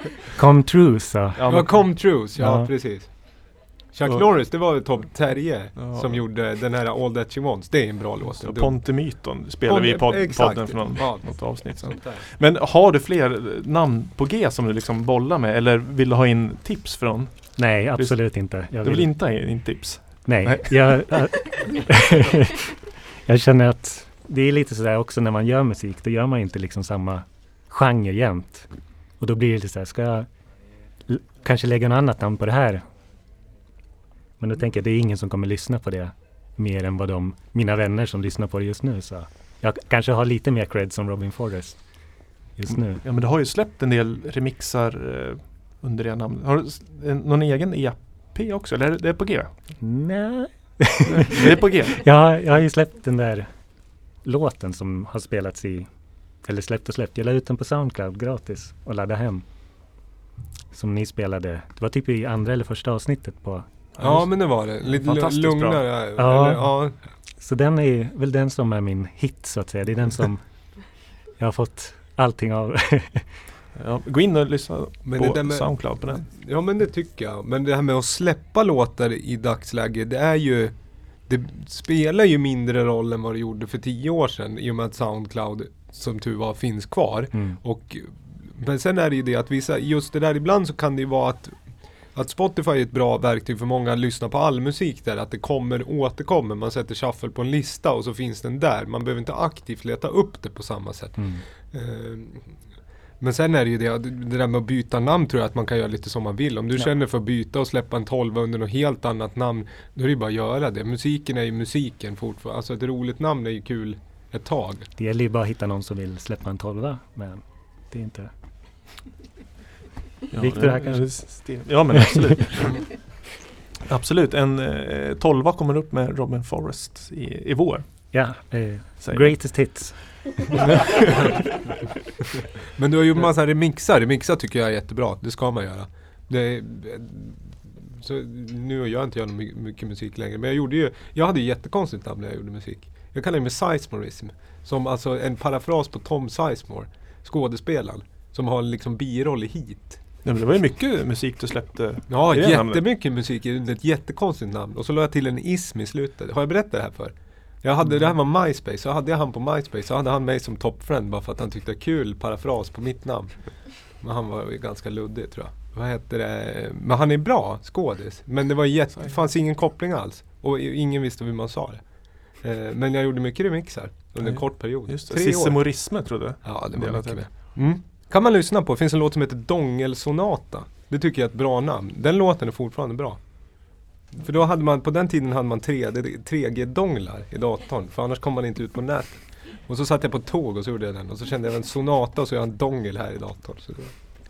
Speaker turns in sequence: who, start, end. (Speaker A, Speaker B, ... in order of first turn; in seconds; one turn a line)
Speaker A: 0.3-2.7
Speaker B: 1.3-1.9
Speaker C: 1.5-12.2
Speaker B: 4.0-4.7
Speaker B: 5.7-6.2
Speaker B: 8.2-21.4
Speaker A: 17.6-19.7
Speaker A: 20.2-30.3
Speaker A: 31.1-32.8
Speaker A: 34.4-43.0
Speaker B: 42.7-49.6
Speaker A: 49.8-59.4
Speaker B: 51.1-52.0
Speaker A: 60.7-63.7
Speaker B: 64.0-65.9
Speaker C: 64.0-67.0
Speaker A: 66.2-73.3
Speaker B: 73.7-76.3
Speaker C: 75.0-80.7
Speaker C: 81.2-102.6
Speaker A: 87.3-87.6
Speaker A: 101.2-101.5
Speaker C: 103.2-114.9
Speaker A: 115.0-118.3
Speaker B: 120.3-123.2
Speaker A: 120.3-122.3
Speaker B: 123.8-128.3
Speaker A: 128.1-130.8
Speaker B: 129.0-129.9
Speaker B: 130.7-131.3
Speaker C: 132.7-150.0
Speaker B: 150.2-152.8
Speaker C: 152.1-194.0
Speaker B: 174.2-177.5